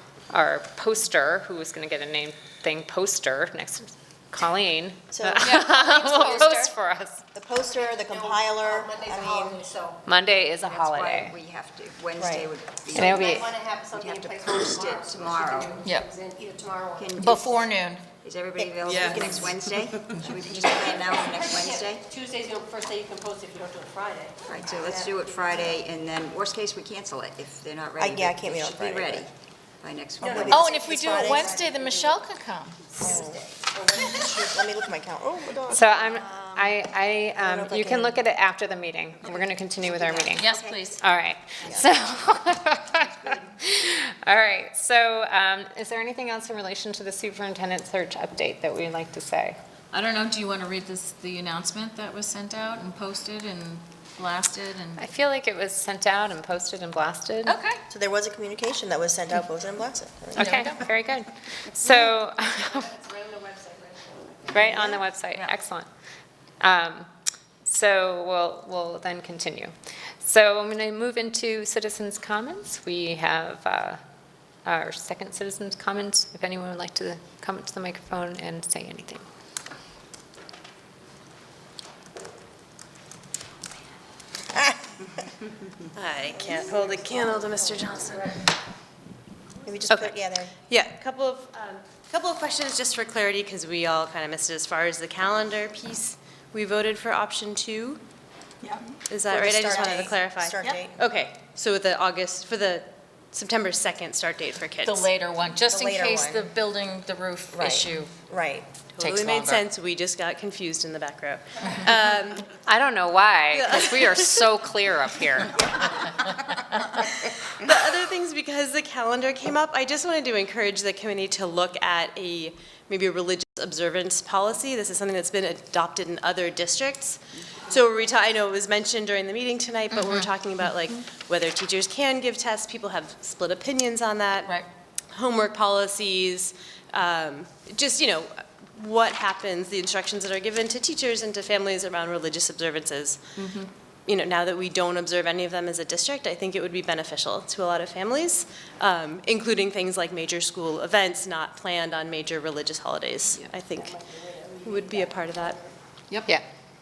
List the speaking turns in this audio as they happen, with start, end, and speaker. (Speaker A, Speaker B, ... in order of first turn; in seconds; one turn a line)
Speaker A: 0.3-7.2
Speaker B: 5.1-6.6
Speaker C: 5.4-6.7
Speaker B: 7.3-9.6
Speaker D: 7.9-10.0
Speaker A: 10.1-11.3
Speaker E: 10.6-15.8
Speaker B: 12.2-12.5
Speaker A: 12.9-13.5
Speaker D: 12.9-17.6
Speaker C: 15.8-16.1
Speaker E: 16.9-22.0
Speaker C: 17.1-18.0
Speaker B: 18.6-19.7
Speaker F: 18.9-19.1
Speaker D: 20.7-25.5
Speaker E: 24.4-32.2
Speaker B: 28.0-29.2
Speaker D: 30.2-30.6
Speaker B: 30.2-31.6
Speaker C: 30.5-32.9
Speaker B: 33.0-36.8
Speaker D: 33.0-34.2
Speaker A: 35.7-49.6
Speaker B: 37.4-38.2
Speaker E: 39.2-40.9
Speaker C: 40.3-41.0
Speaker E: 42.9-43.5
Speaker C: 49.9-55.1
Speaker A: 55.0-57.6
Speaker C: 57.4-57.8
Speaker B: 57.9-60.8
Speaker A: 60.4-62.9
Speaker C: 60.4-60.9
Speaker D: 62.6-64.5
Speaker A: 64.5-65.9
Speaker B: 64.6-65.0
Speaker A: 66.6-67.1
Speaker A: 67.6-74.0
Speaker A: 74.6-79.2
Speaker B: 84.5-84.9
Speaker F: 85.9-88.4
Speaker B: 89.6-90.5
Speaker F: 90.7-98.0
Speaker F: 99.1-105.1
Speaker B: 99.3-101.0
Speaker C: 104.8-108.1
Speaker B: 105.7-106.5
Speaker B: 107.5-108.7
Speaker F: 108.9-112.5
Speaker C: 109.0-109.7
Speaker A: 112.6-115.4
Speaker F: 113.5-114.5
Speaker F: 115.7-116.1
Speaker F: 117.0-134.5
Speaker C: 129.9-130.3
Speaker C: 134.4-134.7
Speaker F: 135.1-143.3
Speaker C: 143.3-143.7
Speaker F: 144.1-154.0
Speaker D: 153.7-155.7
Speaker F: 154.6-155.6